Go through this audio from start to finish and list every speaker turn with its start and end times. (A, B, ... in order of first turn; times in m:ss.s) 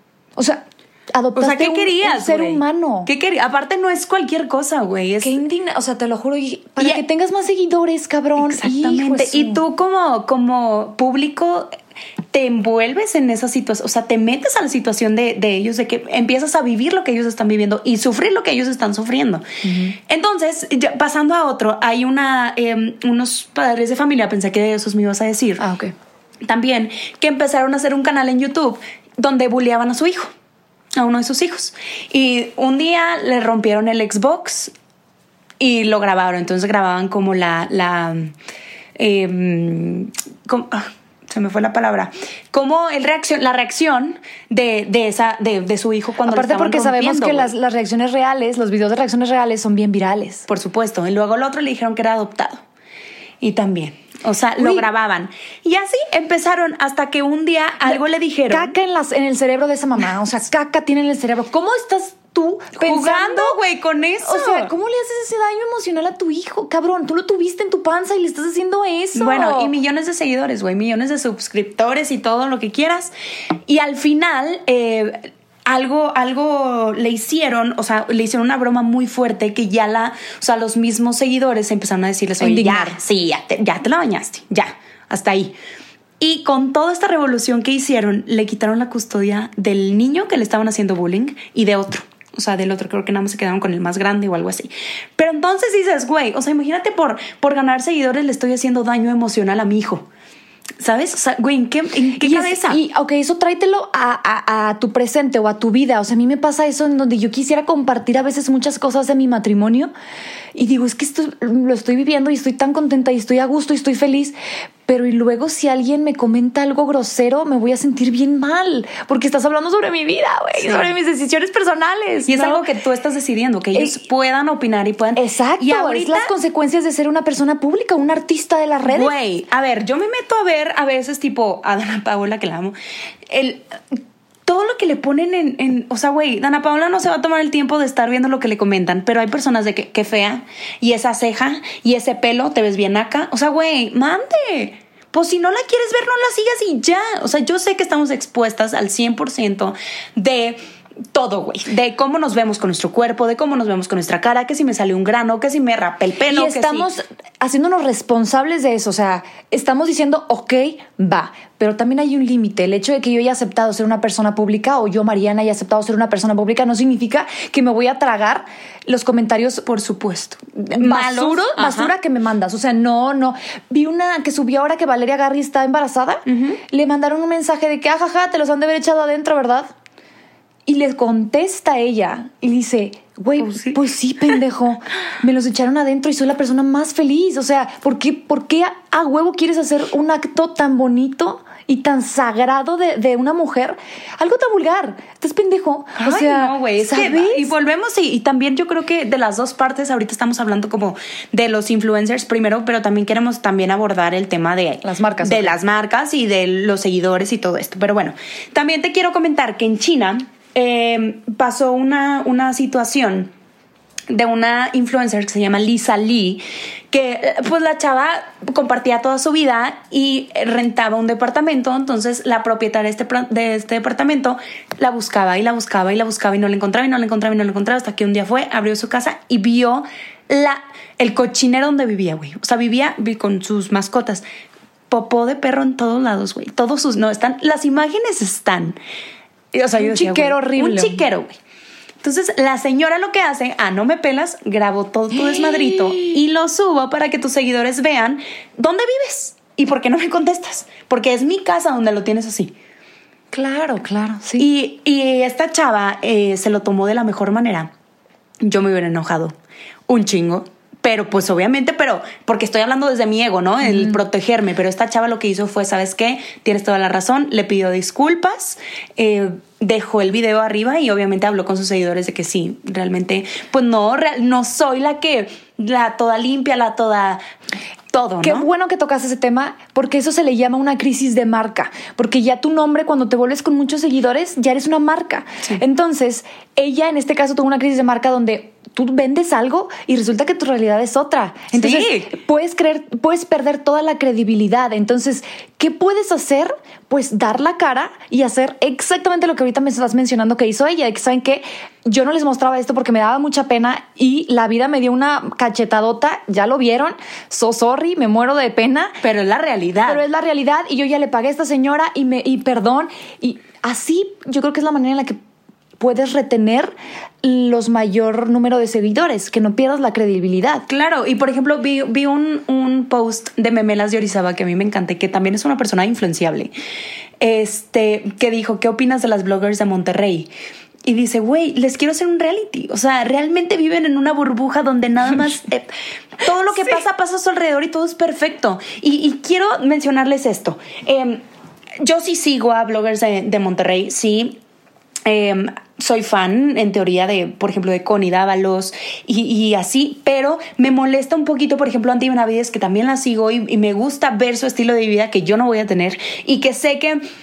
0:00.4-0:03.1 A
0:01.4-0:05.4 B
0:05.2-0:09.6 A
0:08.4-0:11.7 B
0:12.3-0:19.4 B
0:19.6-0:20.0 A
0:20.1-0:25.6 B
0:25.6-0:25.9 A
0:26.4-0:30.3 B
0:31.0-0:34.7 B
0:35.6-0:38.3 B
0:39.0-0:47.5 B
0:46.3-0:50.5 A
0:50.5-0:52.6 B
0:53.4-0:58.7 B
0:54.6-0:54.8 A
0:57.8-1:03.6 A
1:02.8-1:04.7 B
1:04.2-1:09.7 A
1:09.2-1:13.1 B
1:13.7-1:25.6 B
1:22.4-1:23.0 A
1:26.2-1:40.1 B
1:40.8-1:42.8 B
1:42.2-1:49.9 A
1:50.6-1:54.4 A
1:54.9-2:02.6 A
2:00.6-2:00.9 B
2:02.3-2:06.3 B
2:03.7-2:04.0 A
2:05.2-2:09.1 A
2:08.8-2:12.7 B
2:13.3-2:13.7 B
2:14.5-2:30.6 B
2:31.1-2:36.9 B
2:36.3-2:49.7 A
2:49.7-2:51.9 B
2:50.7-2:59.7 A
2:56.3-2:56.6 B
3:00.7-3:17.5 A
3:03.4-3:03.8 B
3:16.0-3:33.3 B
3:24.8-3:25.6 A
3:34.1-3:54.2 B
3:54.9-3:58.8 B
3:59.5-4:01.4 B
3:59.8-4:01.0 A
4:02.0-4:12.5 B
4:05.1-4:06.2 A
4:13.3-4:14.5 A
4:14.4-4:17.7 B
4:18.4-4:19.3 B
4:19.9-4:37.2 B
4:23.7-4:24.0 A
4:37.9-4:38.5 B
4:38.2-5:09.0 A
4:51.5-4:52.1 B
5:09.0-5:10.0 B
5:09.9-5:15.2 A
5:15.8-5:20.6 A
5:20.7-5:26.5 B
5:27.2-5:30.3 B
5:30.8-5:41.2 B
5:41.8-5:44.4 B
5:45.1-5:57.0 B